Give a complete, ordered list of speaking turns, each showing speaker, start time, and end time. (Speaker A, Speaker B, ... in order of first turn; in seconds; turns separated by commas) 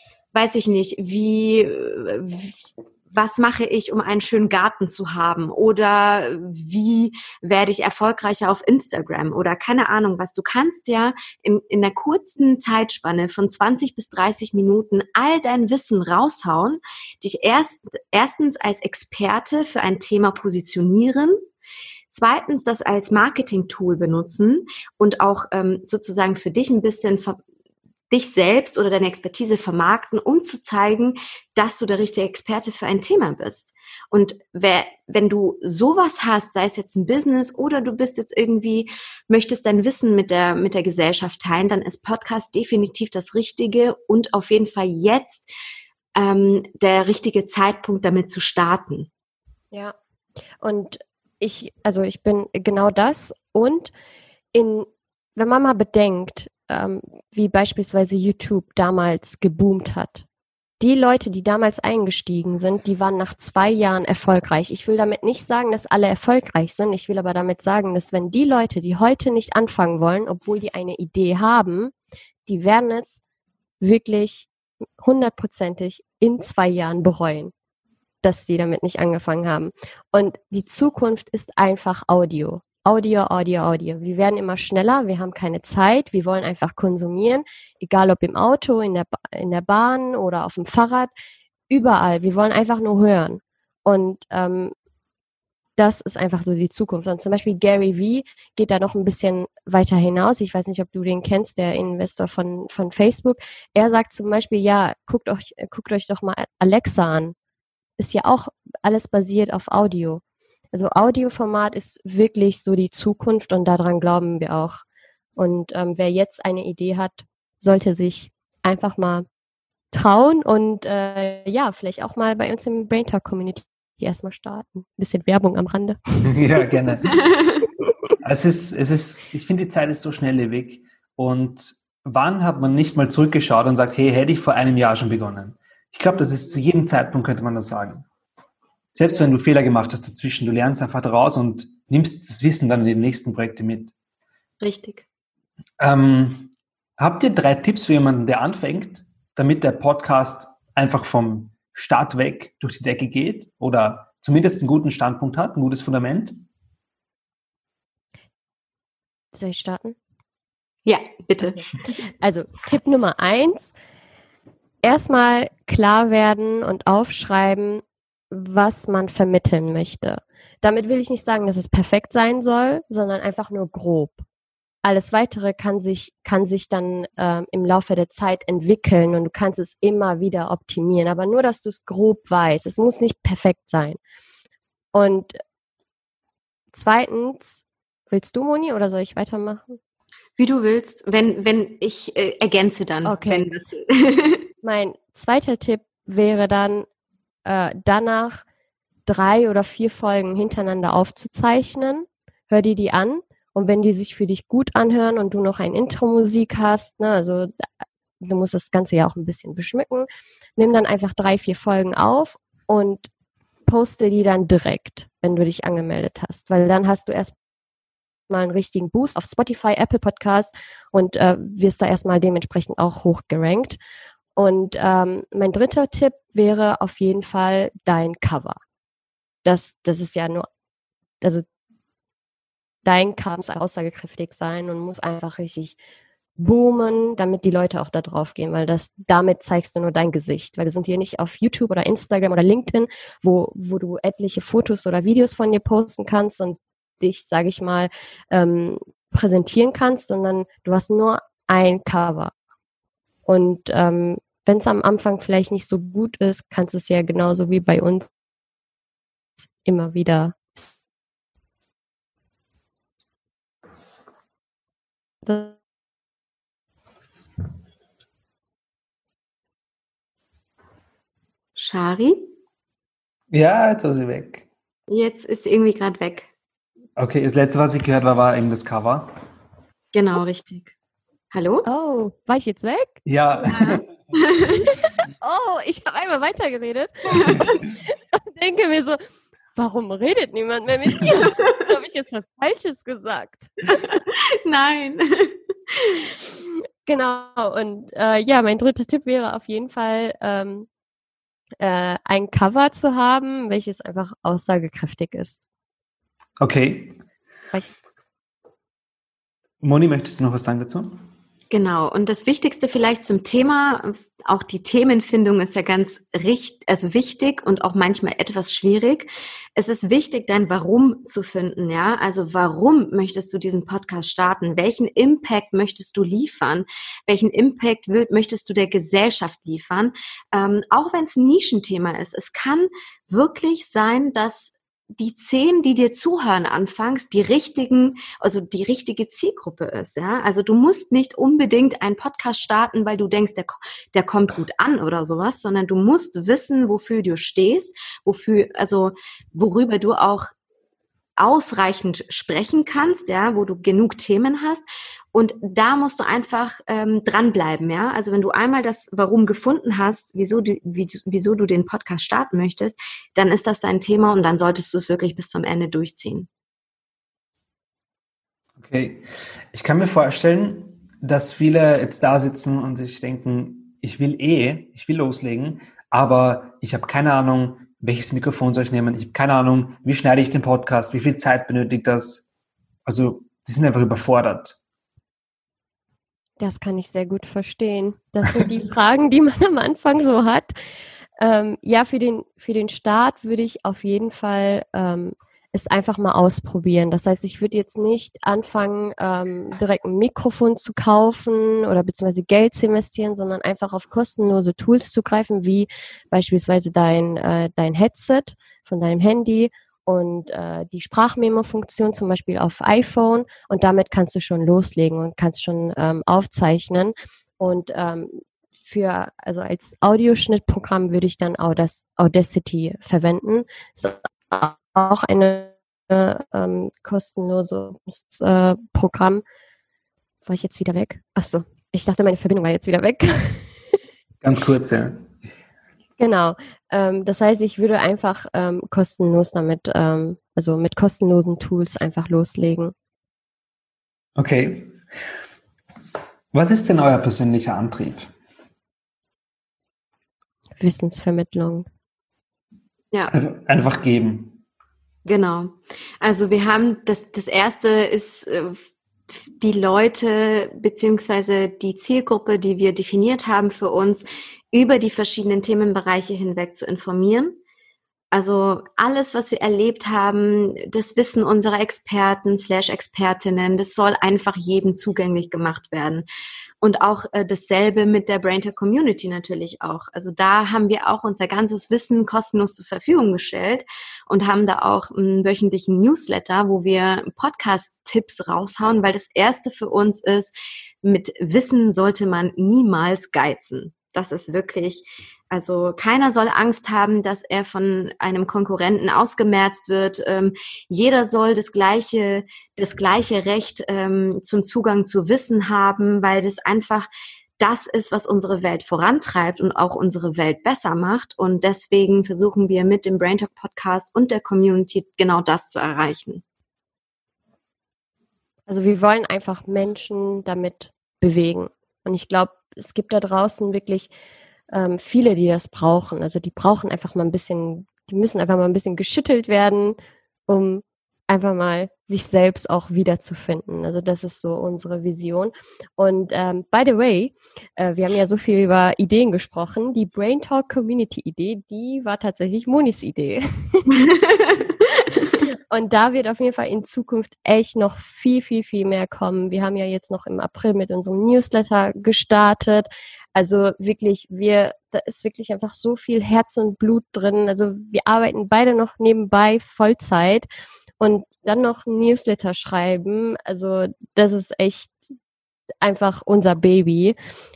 Speaker A: 0.3-21.4, Speaker A: 22.1-27.4, Speaker A: 28.1-45.5, Speaker A: 46.1-49.1, Speaker B: 50.6-53.9, Speaker B: 54.5-60.2, Speaker B: 60.8-71.9, Speaker B: 72.5-73.2, Speaker B: 73.8-77.5, Speaker B: 78.2-91.1, Speaker B: 91.7-94.7, Speaker B: 95.8-107.3, Speaker B: 108.0-110.2, Speaker B: 110.7-114.8, Speaker B: 115.4-119.3, Speaker B: 119.9-126.3, Speaker C: 126.2-127.2, Speaker A: 127.2-127.6, Speaker C: 128.2-138.1, Speaker C: 138.9-143.9, Speaker A: 144.6-145.1, Speaker C: 145.8-156.4, Speaker B: 159.3-160.0, Speaker A: 160.9-161.6, Speaker B: 162.2-163.7, Speaker B: 164.8-174.2, Speaker B: 174.8-184.0, Speaker B: 184.9-185.4, Speaker B: 186.7-189.8, Speaker A: 190.4-194.4, Speaker B: 193.0-193.5, Speaker B: 194.6-196.9, Speaker B: 197.5-198.4, Speaker B: 199.1-207.7, Speaker B: 208.2-213.1, Speaker B: 213.7-217.3, Speaker B: 218.3-223.8, Speaker B: 224.4-228.6, Speaker B: 229.4-230.5, Speaker B: 231.2-231.5, Speaker B: 232.8-235.8, Speaker B: 236.4-252.3, Speaker B: 253.3-258.1, Speaker B: 259.6-260.8, Speaker B: 265.2-265.6, Speaker A: 271.6-272.3, Speaker C: 273.3-274.5, Speaker A: 274.9-276.3, Speaker C: 277.0-279.2, Speaker A: 279.9-280.7, Speaker A: 281.3-281.7, Speaker B: 281.7-282.9, Speaker C: 283.1-283.9, Speaker A: 283.5-284.7, Speaker B: 284.7-287.6, Speaker A: 287.1-287.5, Speaker B: 288.1-289.0, Speaker B: 289.6-293.5, Speaker A: 293.7-296.0, Speaker B: 296.5-300.7, Speaker B: 301.6-305.4, Speaker C: 306.4-307.0, Speaker C: 309.6-311.0, Speaker A: 311.5-350.3, Speaker A: 351.2-366.3, Speaker C: 368.6-382.3, Speaker C: 382.9-384.6, Speaker B: 386.4-390.5, Speaker B: 391.2-429.2, Speaker B: 430.3-433.5, Speaker C: 434.2-435.1, Speaker B: 436.0-442.7, Speaker C: 444.1-444.8, Speaker C: 446.3-448.1, Speaker B: 450.6-451.7, Speaker C: 453.1-454.4, Speaker A: 455.1-467.4, Speaker A: 468.1-476.1, Speaker A: 476.6-506.9, Speaker A: 507.4-516.2, Speaker B: 518.5-523.9, Speaker B: 524.5-529.8, Speaker B: 530.3-543.8, Speaker A: 543.7-544.9, Speaker B: 545.3-560.3, Speaker B: 560.8-564.8, Speaker B: 565.6-567.0